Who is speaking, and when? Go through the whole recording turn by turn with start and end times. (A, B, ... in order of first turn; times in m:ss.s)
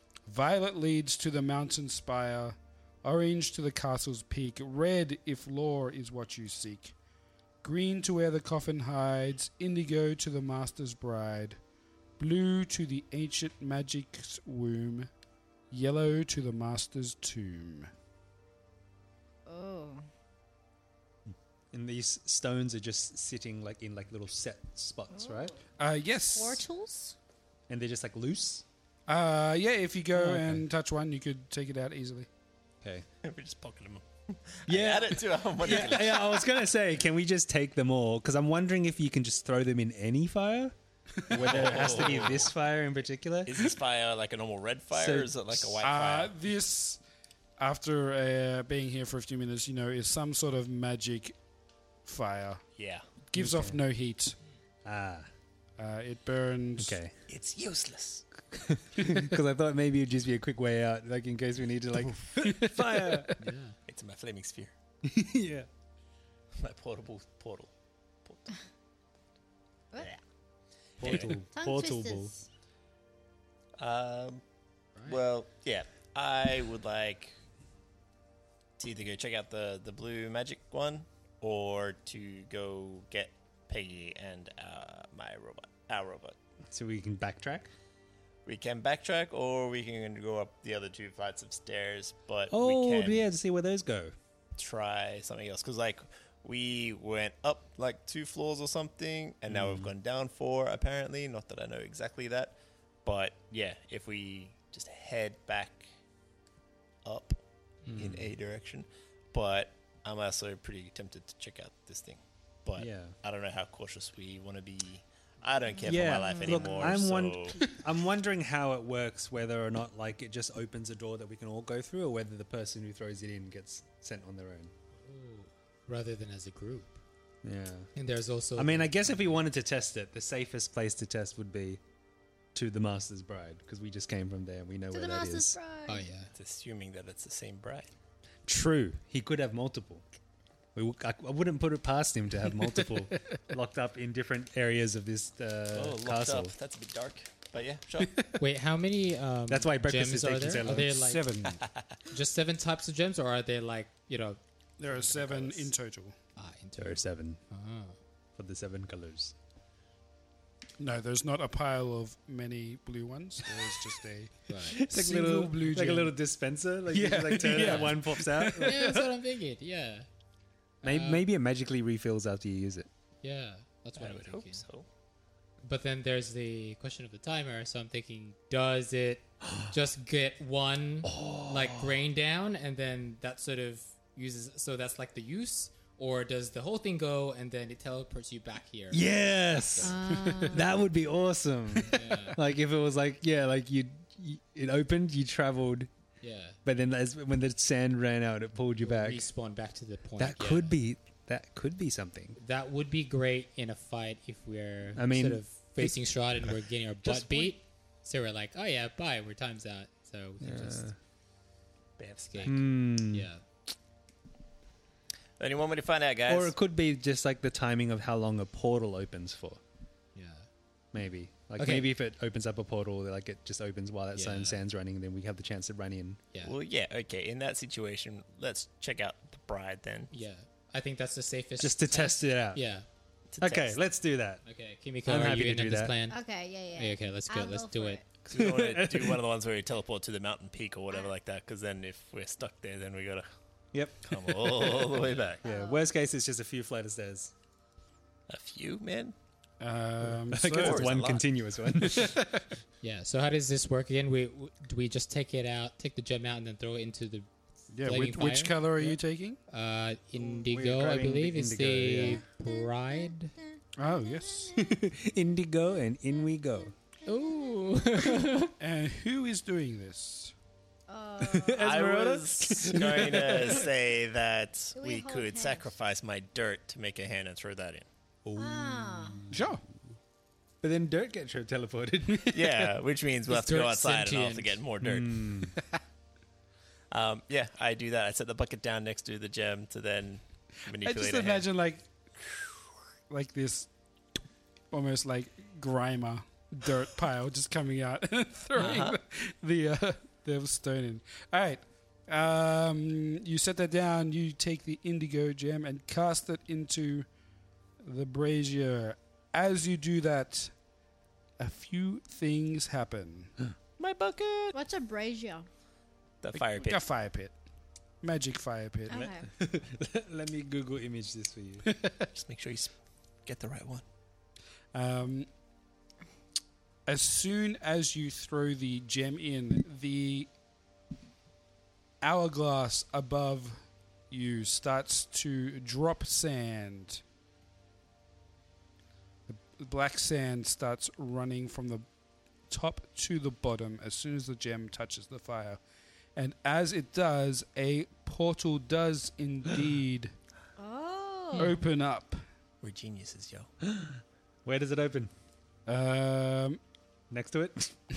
0:00.3-0:06.9 A
0:07.6-0:11.6 A
0:12.2-0:15.1 A
0:15.7-0:17.9 A
0:19.4-0:20.0 B
0:21.7-0:25.5 C
0:25.1-0:25.6 B
0:25.8-0:26.6 A
0:26.2-0:27.1 B
0:27.7-0:28.6 C
0:29.1-0:32.3 A
0:30.1-0:30.6 C
0:33.2-0:36.5 D
0:34.7-0:40.7 C
0:41.3-0:43.8 C
0:41.3-0:42.2 A
0:41.3-0:42.5 D
0:43.4-0:46.3 D
0:44.9-0:45.7 C
0:45.8-0:47.0 A
0:47.6-0:51.3 A
0:52.0-0:52.6 A
0:52.8-0:53.0 D
0:53.3-0:54.4 A
0:53.4-0:53.8 C
0:54.8-0:55.3 C
0:55.8-0:57.0 A
0:56.8-0:57.1 C
0:57.3-0:58.2 D
0:58.5-1:03.3 C
1:02.4-1:03.4 A
1:03.4-1:03.7 E
1:03.9-1:04.7 D
1:05.0-1:05.7 C
1:06.6-1:07.7 D
1:08.2-1:08.6 D
1:11.0-1:12.3 C
1:11.0-1:11.3 D
1:11.3-1:12.5 B
1:13.8-1:14.4 D
1:15.0-1:17.3 D
1:18.8-1:26.4 D
1:26.6-1:27.7 C
1:28.4-1:33.2 D
1:32.5-1:34.1 C
1:34.6-1:45.9 D
1:39.5-1:39.9 C
1:47.0-1:47.4 D
1:47.9-1:48.3 C
1:47.9-1:57.7 D
1:52.8-1:53.2 C
1:55.7-1:56.9 B
1:55.8-2:04.7 C
2:05.0-2:07.0 E
2:07.4-2:07.9 C
2:07.9-2:09.4 E
2:08.6-2:11.8 C
2:12.5-2:15.6 C
2:14.9-2:16.1 B
2:15.8-2:16.3 E
2:16.3-2:17.9 D
2:18.5-2:20.0 C
2:20.7-2:26.5 C
2:25.7-2:28.1 D
2:28.4-2:31.3 E
2:29.5-2:31.0 C
2:30.6-2:31.6 A
2:32.1-2:34.4 E
2:34.8-2:36.2 A
2:34.9-2:35.5 E
2:35.1-2:35.6 D
2:36.4-2:38.0 E
2:36.8-2:37.4 C
2:38.4-2:39.3 C
2:40.8-2:46.1 A
2:44.5-2:44.8 E
2:44.6-2:49.0 C
2:46.9-2:49.0 A
2:47.5-2:48.0 E
2:48.6-2:50.1 E
2:50.8-2:52.9 C
2:50.8-2:51.3 E
2:53.2-2:54.6 E
2:54.0-2:54.8 D
2:55.6-3:10.0 E
3:01.0-3:02.0 C
3:08.9-3:15.9 C
3:09.8-3:10.8 B
3:11.9-3:12.4 E
3:16.2-3:16.6 E
3:16.6-3:19.3 C
3:18.8-3:20.8 E
3:20.2-3:22.4 C
3:22.4-3:30.9 E
3:24.9-3:26.5 C
3:27.0-3:27.5 C
3:30.4-3:31.0 C
3:32.0-3:32.6 D
3:32.3-3:33.4 E
3:32.4-3:33.3 C
3:35.4-3:36.5 D
3:36.3-3:39.6 C
3:40.1-3:40.5 E
3:40.9-3:46.2 C
3:41.6-3:41.9 E
3:44.1-3:44.6 E
3:46.4-3:50.1 D
3:50.1-3:52.8 E
3:51.6-3:52.6 C
3:53.3-3:53.8 D
3:53.4-3:54.4 C
3:54.4-3:56.2 E
3:55.0-3:55.9 C
3:56.1-3:58.1 B
3:56.7-3:58.0 E
3:58.2-4:03.2 D
3:58.3-3:59.2 C
4:03.7-4:07.3 C
4:04.0-4:05.4 D
4:05.4-4:05.9 B
4:08.3-4:09.1 D
4:09.6-4:11.0 A
4:10.0-4:12.4 C
4:10.4-4:11.2 D
4:12.8-4:17.3 E
4:17.7-4:19.4 A
4:17.8-4:18.9 E
4:19.5-4:23.3 E
4:20.1-4:22.2 C
4:22.0-4:23.6 B
4:23.8-4:24.5 A
4:24.5-4:26.7 C
4:27.0-4:28.5 E
4:28.6-4:30.3 A
4:30.9-4:31.6 B
4:31.2-4:33.7 C
4:31.6-4:37.9 D
4:34.7-4:35.7 B
4:38.2-4:39.5 C
4:38.4-4:39.3 B
4:39.3-4:39.6 A
4:40.6-4:42.7 C
4:42.3-4:45.3 D
4:43.3-4:44.6 E
4:44.8-4:45.6 C
4:46.9-4:51.5 D
4:50.8-4:51.9 A
4:53.1-4:53.7 A
4:54.7-5:07.1 A
4:58.6-4:59.0 D
5:07.8-5:10.5 A
5:11.4-5:13.3 A
5:13.8-5:14.6 D
5:14.5-5:15.5 B
5:16.2-5:16.8 D
5:16.3-5:17.3 A
5:18.0-5:19.0 A
5:18.9-5:19.3 B
5:18.9-5:21.6 C
5:21.7-5:22.0 A
5:22.1-5:22.7 D
5:23.2-5:23.8 D
5:24.7-5:25.3 A
5:26.8-5:30.3 A
5:32.0-5:33.6 A
5:34.1-5:37.0 A
5:39.3-5:41.8 A
5:42.5-5:45.6 A
5:46.2-5:50.1 A
5:50.6-5:51.6 B
5:51.4-5:52.2 A
5:52.6-5:53.5 D
5:53.6-5:55.1 C
5:55.6-5:56.6 A
5:57.1-5:57.7 C